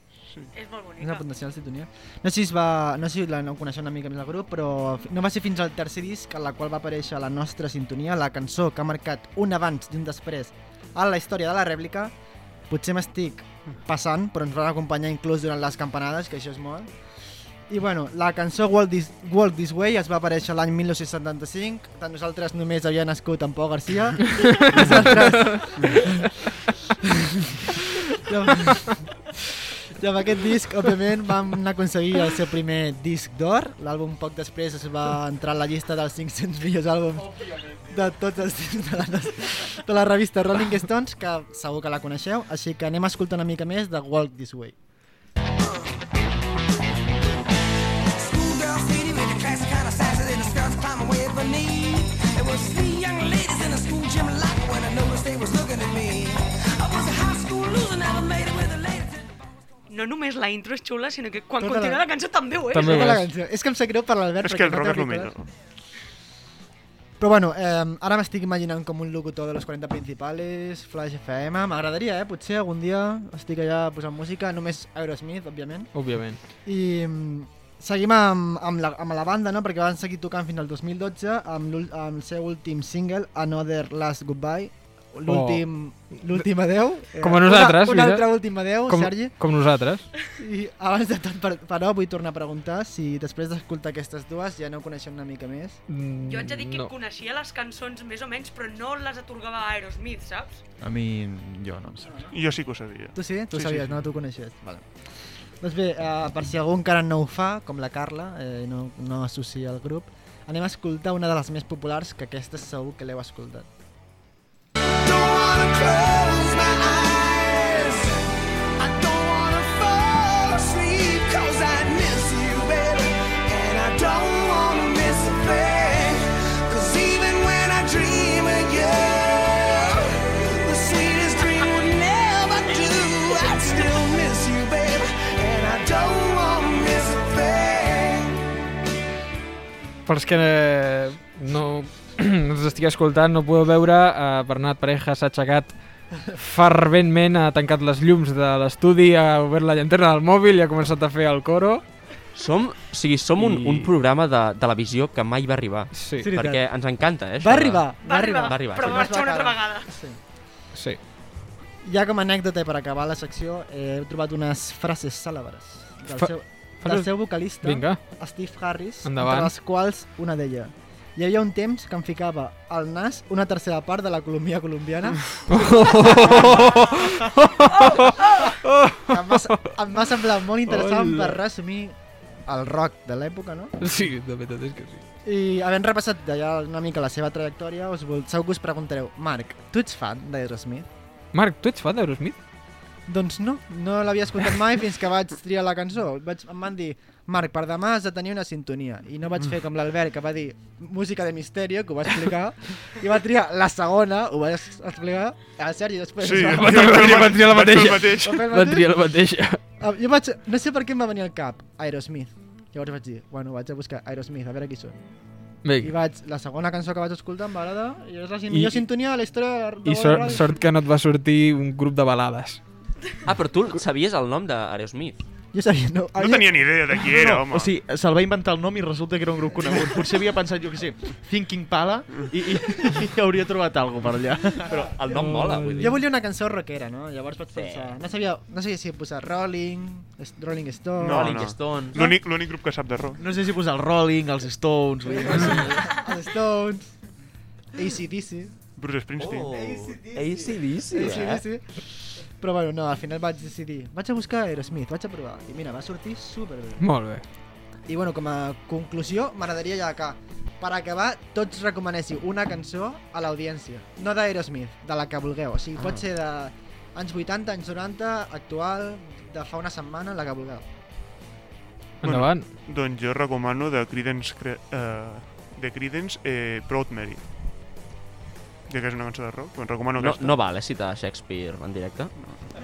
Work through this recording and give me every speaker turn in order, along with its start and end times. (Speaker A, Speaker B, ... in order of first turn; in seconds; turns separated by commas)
Speaker A: 0.3-0.5, Speaker B: 0.5-1.2, Speaker C: 1.0-12.1, Speaker C: 12.7-16.9, Speaker C: 17.7-27.0, Speaker D: 24.8-25.6, Speaker C: 27.6-29.3, Speaker C: 30.0-44.8, Speaker E: 48.1-59.2, Speaker B: 59.9-63.2, Speaker C: 61.6-62.0, Speaker D: 62.7-63.3, Speaker C: 62.8-65.3, Speaker A: 64.4-65.5, Speaker C: 67.2-75.9, Speaker D: 75.9-76.4, Speaker C: 76.7-89.3, Speaker D: 85.3-86.5, Speaker D: 87.1-90.1, Speaker C: 90.4-95.8, Speaker D: 95.9-96.9, Speaker B: 96.3-100.6, Speaker F: 100.8-102.2, Speaker C: 102.0-102.3, Speaker A: 102.3-104.0, Speaker C: 103.2-104.8, Speaker C: 105.6-113.7, Speaker E: 115.0-118.2, Speaker E: 118.8-138.4, Speaker D: 140.1-151.8, Speaker G: 152.3-159.1, Speaker D: 153.4-153.9, Speaker D: 155.9-156.3, Speaker C: 156.2-160.2, Speaker B: 158.0-159.9, Speaker D: 160.7-161.0, Speaker C: 161.8-176.7, Speaker D: 166.2-168.0, Speaker D: 169.0-169.5, Speaker D: 175.5-179.7, Speaker B: 176.0-176.4, Speaker B: 177.7-178.5, Speaker C: 179.1-181.9, Speaker D: 180.7-181.4, Speaker C: 182.5-183.8, Speaker D: 183.8-185.0, Speaker C: 185.2-190.9, Speaker D: 191.3-192.4, Speaker C: 193.1-207.6, Speaker A: 206.2-208.4, Speaker D: 206.5-209.6, Speaker C: 208.2-208.9, Speaker C: 209.8-215.0, Speaker D: 215.6-215.9, Speaker C: 215.8-220.6, Speaker D: 218.5-218.8, Speaker D: 219.8-222.6, Speaker G: 223.2-225.2, Speaker C: 225.5-226.7, Speaker A: 226.2-227.7, Speaker F: 227.1-234.8, Speaker G: 234.7-236.0, Speaker D: 235.1-236.0, Speaker C: 235.8-241.4, Speaker A: 241.0-243.2, Speaker G: 241.1-242.0, Speaker F: 243.2-245.9, Speaker C: 245.1-246.9, Speaker C: 247.8-248.6, Speaker A: 248.8-249.7, Speaker G: 249.2-251.4, Speaker C: 249.5-256.8, Speaker D: 256.8-257.2, Speaker C: 257.9-270.6, Speaker G: 265.8-266.1, Speaker A: 272.0-277.2, Speaker D: 272.0-272.5, Speaker A: 278.7-280.4, Speaker G: 280.0-282.1, Speaker A: 282.2-282.5